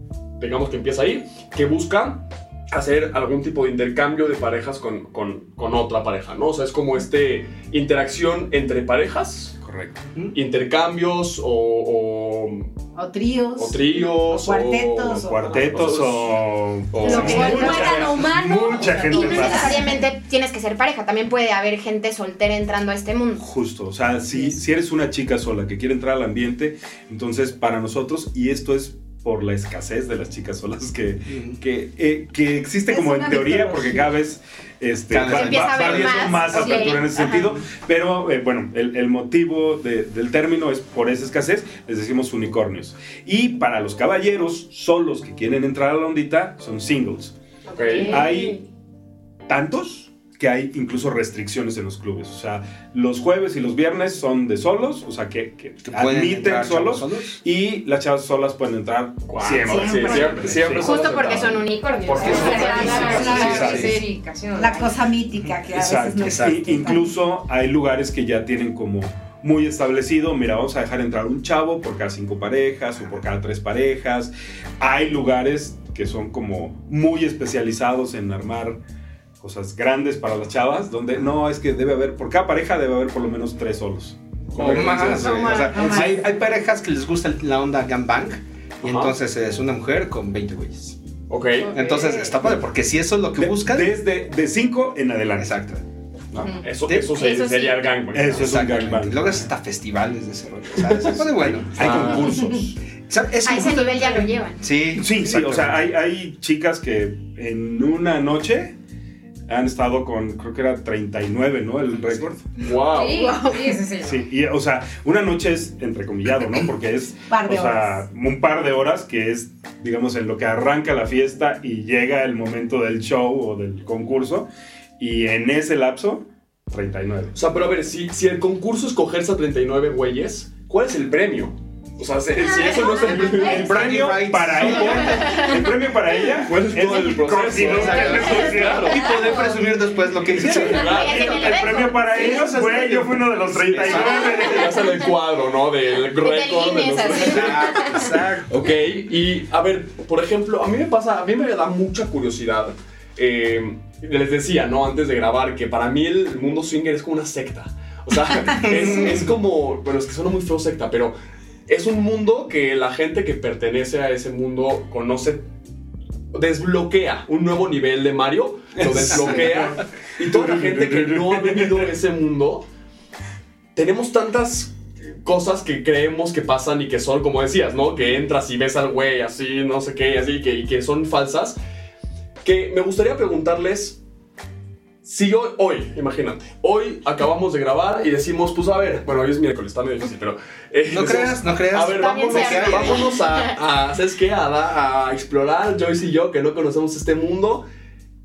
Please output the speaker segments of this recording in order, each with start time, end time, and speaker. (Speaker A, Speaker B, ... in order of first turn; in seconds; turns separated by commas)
Speaker A: 0.4-9.6, Speaker B: 9.6-10.0, Speaker A: 10.3-12.7, Speaker C: 12.9-15.7, Speaker A: 13.6-16.3, Speaker B: 15.2-19.9, Speaker A: 16.9-18.1, Speaker D: 17.0-18.1, Speaker E: 17.1-19.9, Speaker D: 19.1-23.4, Speaker C: 19.4-19.9, Speaker B: 23.4-47.3, Speaker F: 31.3-31.6, Speaker C: 32.9-34.1, Speaker F: 35.1-36.9, Speaker D: 35.2-37.5, Speaker D: 47.7-48.6, Speaker A: 47.7-48.2, Speaker B: 48.0-48.6, Speaker B: 49.5-61.5, Speaker F: 55.8-57.4, Speaker A: 59.3-63.4, Speaker C: 59.7-60.2, Speaker D: 60.7-64.0, Speaker E: 61.8-65.0, Speaker C: 62.6-63.9, Speaker B: 62.7-63.9, Speaker F: 63.2-63.9, Speaker C: 64.5-67.0, Speaker B: 65.7-78.8, Speaker F: 66.2-66.7, Speaker B: 79.4-85.7, Speaker A: 84.5-85.2, Speaker F: 84.6-91.0, Speaker D: 85.2-85.8, Speaker C: 85.7-86.2, Speaker A: 88.8-89.2, Speaker A: 91.3-91.7, Speaker D: 91.6-92.3, Speaker F: 91.7-93.9, Speaker B: 93.3-95.6, Speaker F: 95.4-95.8, Speaker A: 96.6-98.7, Speaker D: 97.2-97.8, Speaker B: 98.1-99.5, Speaker F: 98.3-102.4, Speaker A: 100.8-101.2, Speaker B: 101.2-102.8, Speaker A: 101.7-102.3, Speaker F: 103.1-105.8, Speaker D: 103.4-104.6, Speaker B: 104.9-108.8, Speaker B: 109.5-112.4, Speaker A: 112.6-113.3, Speaker D: 112.6-113.8, Speaker E: 112.9-114.2, Speaker B: 114.0-124.5, Speaker C: 117.3-118.0, Speaker B: 125.0-127.4, Speaker A: 127.3-133.7, Speaker D: 132.4-133.3, Speaker E: 132.4-133.9, Speaker B: 133.0-139.0, Speaker F: 133.4-135.6, Speaker D: 135.1-135.5, Speaker A: 136.3-139.4, Speaker F: 137.5-141.2, Speaker E: 139.0-139.5, Speaker B: 140.2-144.9, Speaker A: 140.3-141.6, Speaker D: 140.8-142.7, Speaker F: 142.2-144.5, Speaker A: 144.2-161.1, Speaker D: 146.2-147.8, Speaker F: 147.1-148.5, Speaker B: 147.9-148.4, Speaker F: 158.6-159.3, Speaker A: 161.7-165.4, Speaker A: 166.3-172.7, Speaker B: 168.8-171.9, Speaker A: 173.7-181.6, Speaker A: 182.4-184.0, Speaker A: 185.0-197.7, Speaker F: 190.9-193.1, Speaker D: 191.8-193.5